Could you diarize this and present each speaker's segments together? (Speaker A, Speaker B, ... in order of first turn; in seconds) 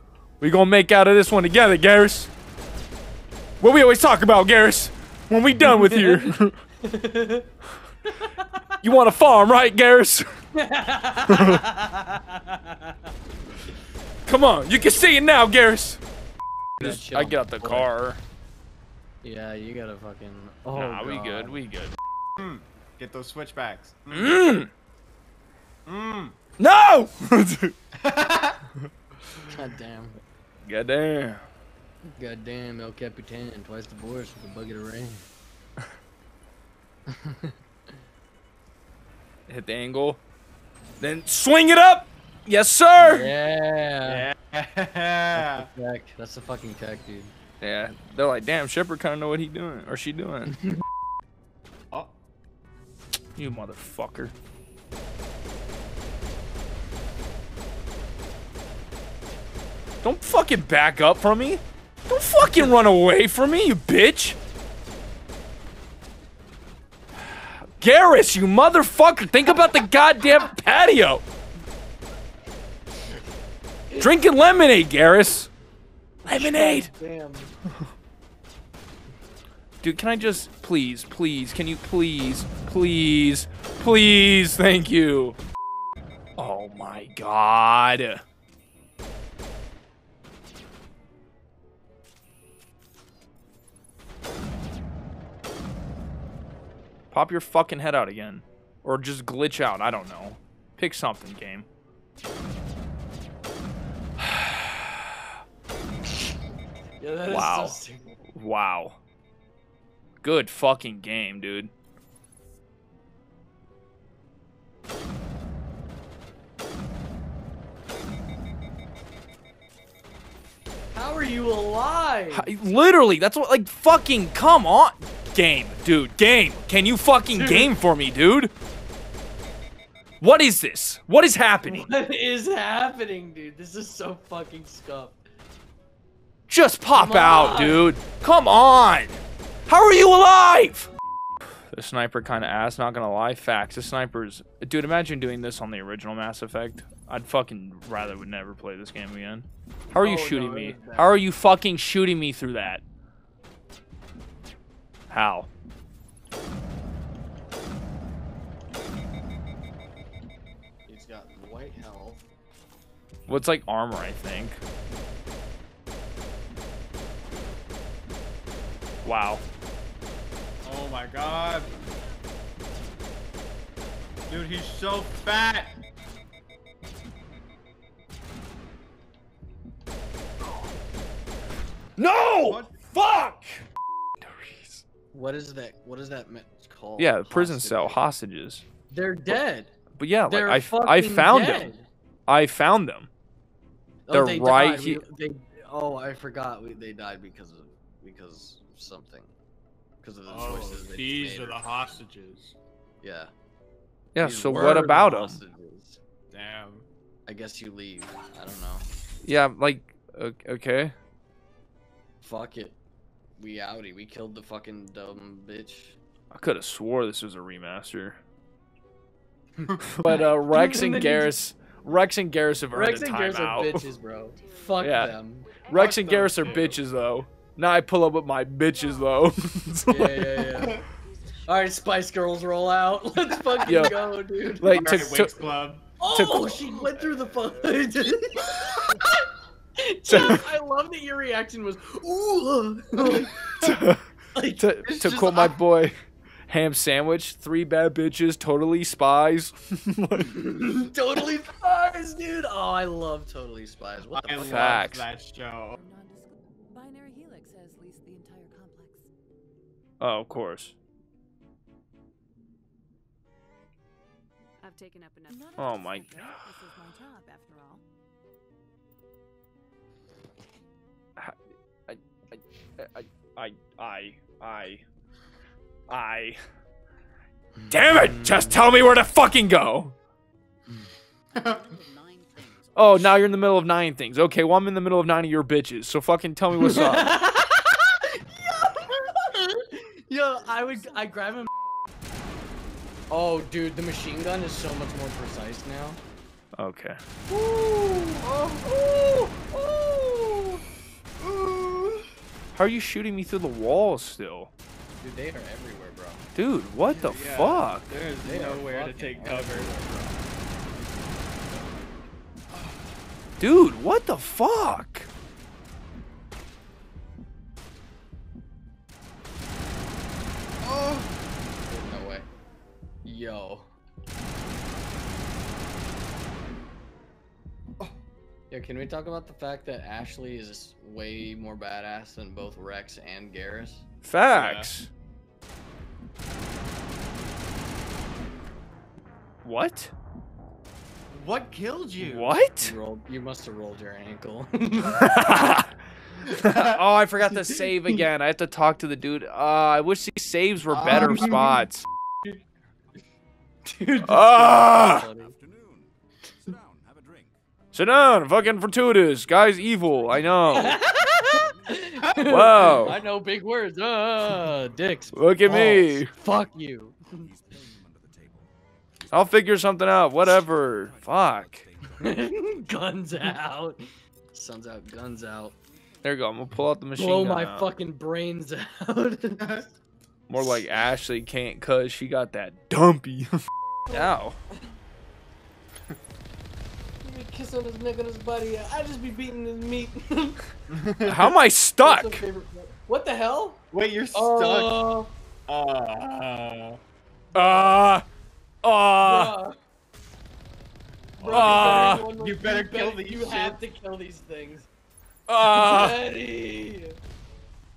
Speaker A: 0.4-2.3, 3.6-6.5, 8.8-10.2, 11.3-11.6, 14.2-16.0, 16.8-18.2, 20.7-21.9, 24.1-24.7, 26.6-27.7, 30.6-31.4, 39.5-40.2, 41.0-43.3, 47.6-50.6, 53.4-54.3, 60.0-64.4, 67.8-71.2, 74.0-75.5, 76.2-76.9, 79.8-85.4, 86.4-88.2, 97.1-101.7, 104.2-104.8, 107.3-107.8, 108.3-109.0, 110.2-111.7, 122.3-128.5, 130.2-131.9, 136.5-140.9, 141.7-152.8, 155.1-155.5, 163.3-164.6, 169.0-169.4, 182.0-183.6, 184.4-184.8, 187.0-188.6, 190.0-191.7, 192.3-193.1, 194.1-195.0, 204.1-205.4, 209.2-210.9, 216.3-218.2, 219.9-223.9, 224.8-230.5, 233.6-234.0, 234.6-235.3, 236.1-236.8, 240.1-240.4, 243.6-244.0, 244.6-245.9, 246.5-250.4, 254.3-255.1, 260.0-260.7, 265.6-266.3, 271.9-274.8, 275.9-276.4, 277.7-279.9, 282.7-287.1, 296.6-297.0, 302.5-304.5, 306.3-307.9, 313.4-315.1, 334.0-334.9, 339.4-339.9, 342.0-342.7, 344.9-345.7, 346.3-351.8, 354.0-355.1, 357.7-360.8, 362.2-363.0, 365.1-366.1, 369.1-371.7, 376.0-377.7, 380.3-384.4, 391.0-392.2, 397.3-398.0, 398.6-399.4, 401.2-402.1, 405.3-406.0
Speaker B: 5.7-6.3, 6.8-7.5, 10.6-12.9, 16.8-17.9, 19.2-21.6, 29.5-30.2, 32.1-35.2, 37.1-37.5, 43.0-44.2, 45.4-47.3, 73.9-74.2, 76.3-77.5, 107.0-108.2, 120.9-122.5, 127.3-127.8, 131.6-135.2, 136.9-137.9, 149.9-151.2, 160.9-162.3, 185.1-188.0, 188.9-189.7, 190.3-191.8, 194.1-199.3, 200.0-201.6, 203.0-203.3, 204.2-206.0, 207.3-208.9, 212.2-212.8, 213.4-216.0, 219.6-221.3, 222.7-225.7, 229.9-230.8, 231.5-235.1, 236.0-239.3, 239.8-243.8, 244.3-245.6, 250.3-254.7, 277.6-278.5, 286.6-291.5, 293.1-296.0, 305.0-306.2, 308.2-310.2, 321.7-322.3, 323.0-323.7, 328.5-333.8, 342.6-345.4, 350.8-351.5, 353.6-355.3, 360.5-367.3, 372.0-373.8, 374.3-375.6, 376.9-379.7, 383.9-384.7, 387.0-390.4, 391.8-395.1, 397.4-397.8, 399.0-399.6, 401.2-404.7, 405.4-407.0
Speaker C: 22.4-24.4, 25.9-26.4, 28.0-28.6, 44.0-45.7, 170.6-171.7, 174.3-175.8, 182.4-182.7, 200.3-202.5, 206.3-206.9, 225.7-226.8, 234.7-235.9, 254.1-255.8, 281.4-281.7, 297.3-300.6, 301.2-302.1, 306.8-310.1, 320.6-321.1, 334.3-334.7, 341.1-342.4, 350.8-351.4, 390.7-391.3, 393.7-394.9, 395.5-396.8, 401.2-403.6
Speaker D: 224.1-226.8, 228.7-229.1, 230.6-232.2, 232.8-233.8, 255.8-259.1, 264.6-267.8, 281.4-283.2
Speaker E: 355.2-357.4, 359.3-360.8, 361.3-362.3, 367.2-368.5, 370.6-371.9